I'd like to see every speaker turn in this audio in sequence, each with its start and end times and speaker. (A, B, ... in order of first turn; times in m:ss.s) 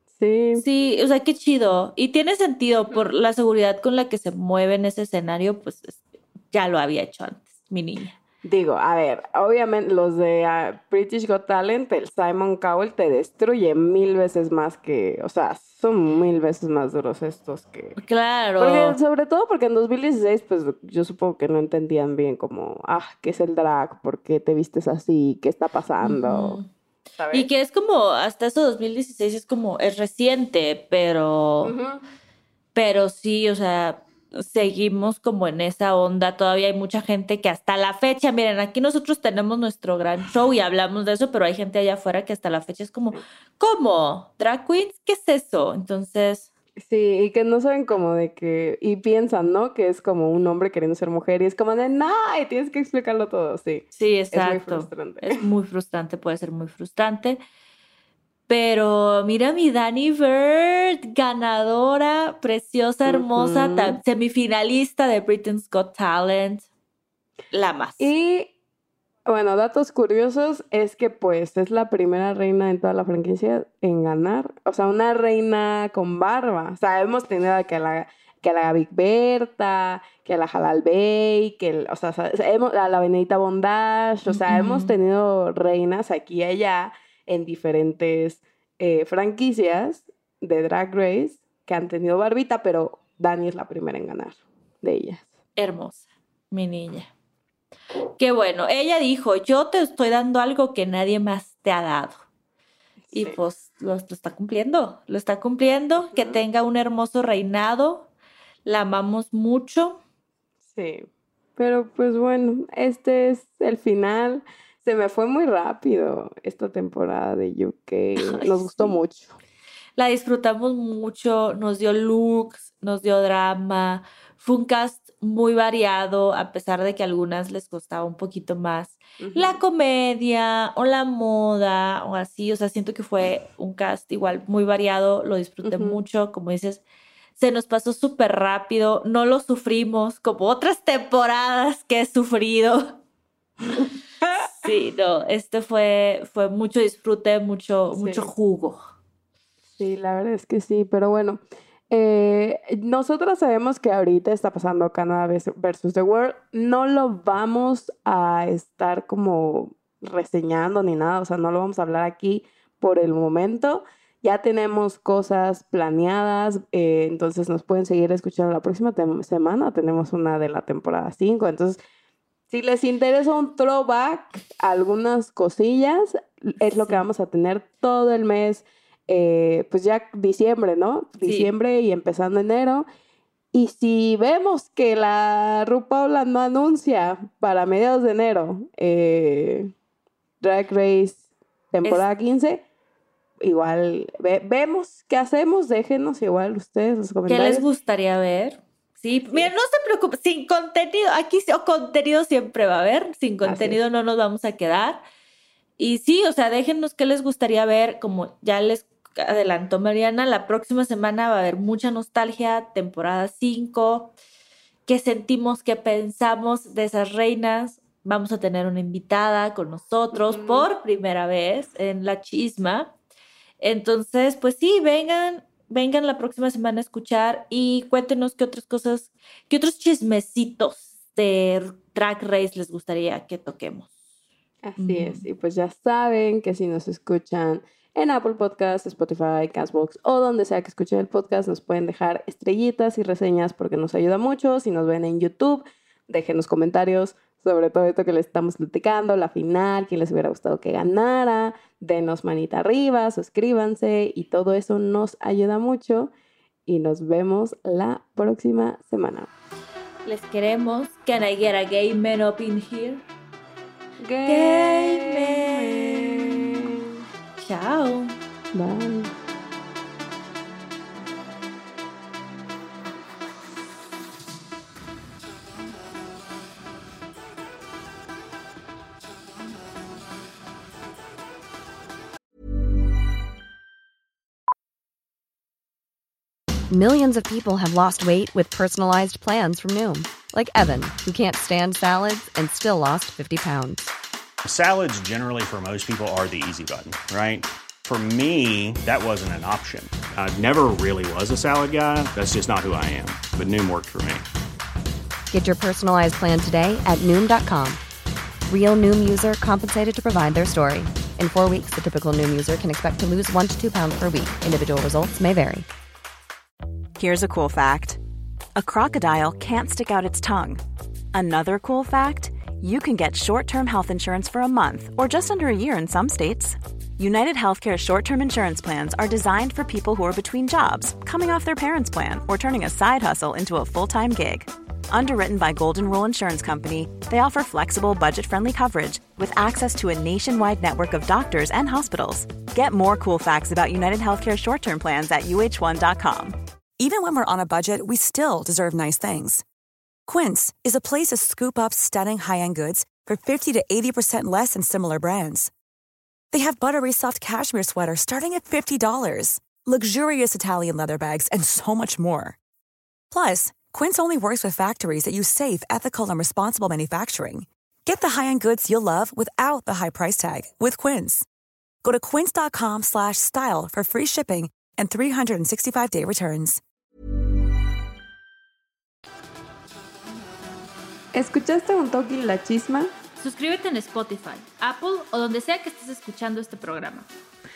0:00.2-0:00.6 A
0:00.6-0:08.1 B
0:08.4-0:18.0 A
0:18.0-0:19.0 B
0:18.6-0:26.6 A
0:26.0-0:26.7 B
0:27.2-0:27.5 A
0:27.3-0:31.7 B
0:31.6-0:32.0 A
0:32.7-0:46.5 B
0:46.8-0:55.4 A
0:53.9-0:57.4 B
0:58.5-1:06.7 B
1:03.0-1:04.0 A
1:07.5-1:08.1 B
1:08.0-1:08.5 A
1:09.2-1:35.3 A
1:24.3-1:24.9 B
1:35.6-1:37.1 B
1:38.2-1:42.2 B
1:43.1-1:43.4 A
1:43.1-1:48.1 B
1:46.0-1:46.4 A
1:48.6-1:50.0 B
1:50.6-1:59.4 A
1:58.2-1:59.0 B
2:00.0-2:16.8 B
2:09.2-2:09.6 A
2:15.6-2:16.0 A
2:17.4-2:23.0 B
2:24.4-2:28.8 B
2:27.9-2:28.3 A
2:29.8-2:51.8 A
2:52.5-3:02.8 A
2:56.8-2:57.0 B
3:01.2-3:01.5 B
3:03.5-3:09.7 A
3:10.4-3:12.6 A
3:13.4-3:17.7 A
3:17.3-3:25.0 B
3:23.4-3:23.8 A
3:25.8-3:34.1 B
3:34.8-3:42.9 B
3:40.1-3:40.7 A
3:43.6-3:54.0 B
3:54.6-4:16.1 A
3:54.8-3:55.2 B
4:16.7-4:19.3 A
4:20.0-4:23.0 B
4:24.0-4:26.9 A
4:24.2-4:26.6 B
4:27.4-4:28.2 B
4:28.5-4:29.1 A
4:46.7-4:53.9 C
4:54.4-5:04.2 D
5:05.3-5:07.8 C
5:08.5-5:15.7 C
5:17.0-5:18.0 E
5:18.6-5:20.6 E
5:21.1-5:46.4 E
5:46.8-5:49.4 F
5:50.1-5:55.5 F
5:56.3-6:02.4 F
6:03.1-6:11.2 F
6:11.8-6:16.6 F
6:21.1-6:22.9 A
6:23.2-6:27.1 B